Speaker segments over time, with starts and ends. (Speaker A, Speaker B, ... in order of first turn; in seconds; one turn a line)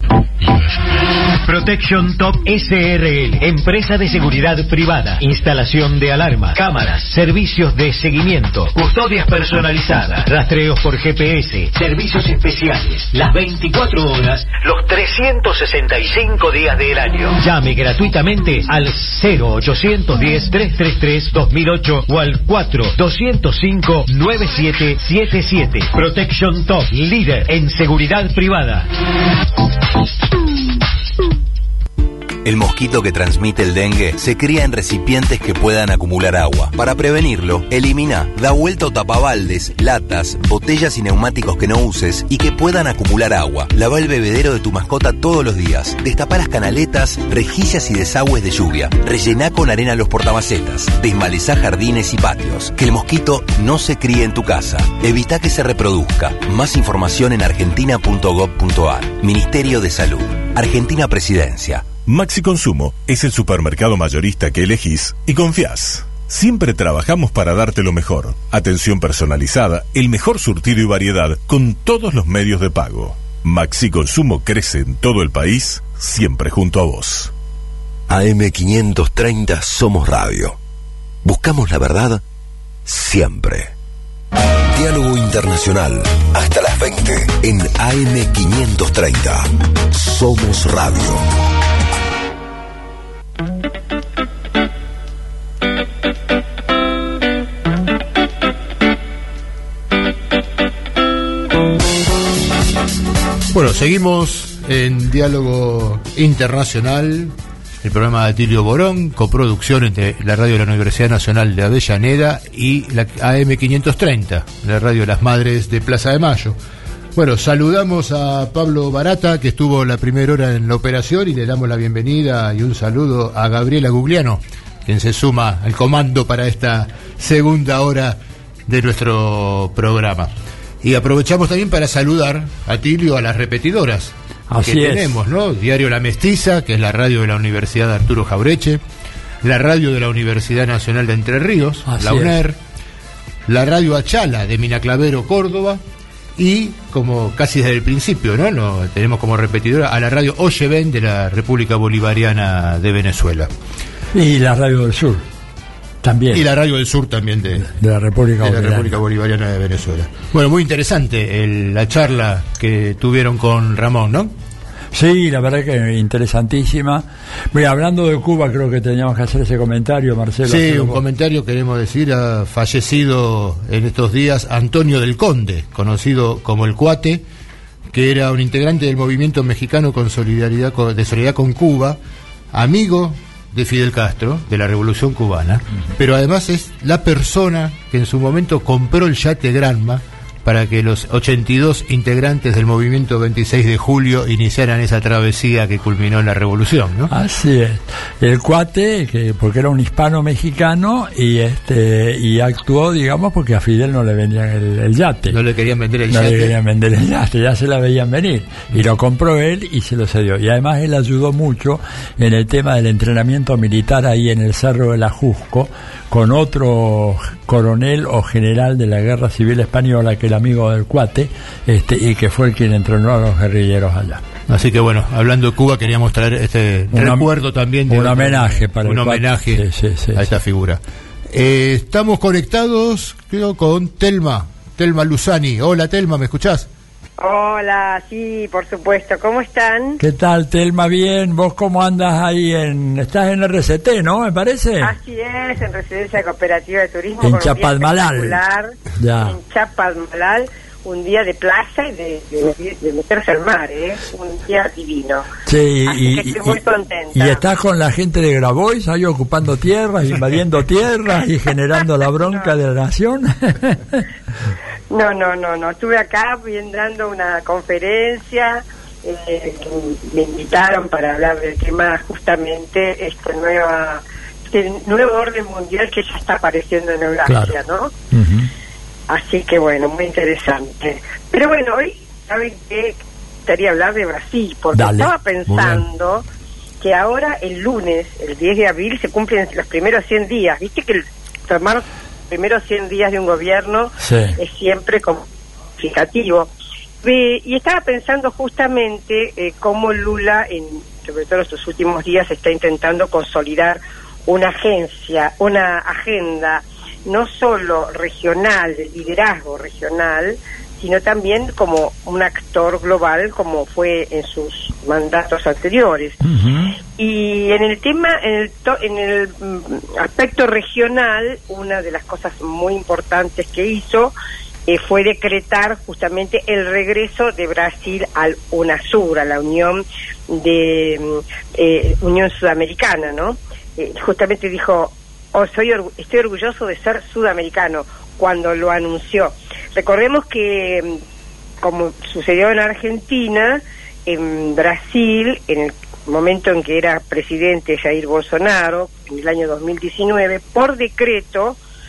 Speaker A: 1.4-28.9
Speaker B: 32.4-61.9
Speaker C: 62.1-77.3
Speaker D: 78.1-80.6
Speaker D: 81.2-82.2
Speaker D: 82.9-83.7
Speaker D: 84.7-91.2
Speaker E: 103.5-116.6
Speaker E: 117.2-138.8
Speaker F: 134.5-135.2
Speaker E: 139.4-142.6
Speaker F: 141.9-142.4
Speaker E: 143.5-145.8
Speaker E: 146.4-153.5
Speaker F: 154.1-155.3
Speaker F: 156.0-156.4
Speaker E: 156.3-157.7
Speaker F: 157.6-158.9
Speaker E: 158.4-164.3
Speaker F: 164.9-171.0
Speaker E: 170.4-177.2
Speaker E: 177.9-182.0
Speaker E: 182.5-197.1
Speaker F: 197.1-205.4
Speaker E: 205.3-206.6
Speaker F: 206.1-224.2
Speaker E: 224.5-236.7
Speaker F: 226.9-227.3
Speaker F: 227.9-230.3
Speaker G: 237.2-240.0
Speaker F: 240.0-244.9
Speaker G: 244.8-248.7
Speaker F: 247.2-248.4
Speaker F: 249.0-249.4
Speaker G: 249.2-255.3
Speaker F: 255.5-256.6
Speaker G: 255.8-257.4
Speaker F: 257.1-264.0
Speaker G: 262.2-262.5
Speaker G: 264.9-277.9
Speaker F: 277.3-277.6
Speaker F: 278.1-278.5
Speaker G: 279.1-286.2
Speaker F: 284.7-285.9
Speaker G: 286.8-295.2
Speaker F: 294.0-294.4
Speaker G: 295.8-296.5
Speaker G: 297.0-316.2
Speaker F: 316.2-316.8
Speaker G: 316.9-324.1
Speaker G: 324.7-341.0
Speaker G: 341.6-351.6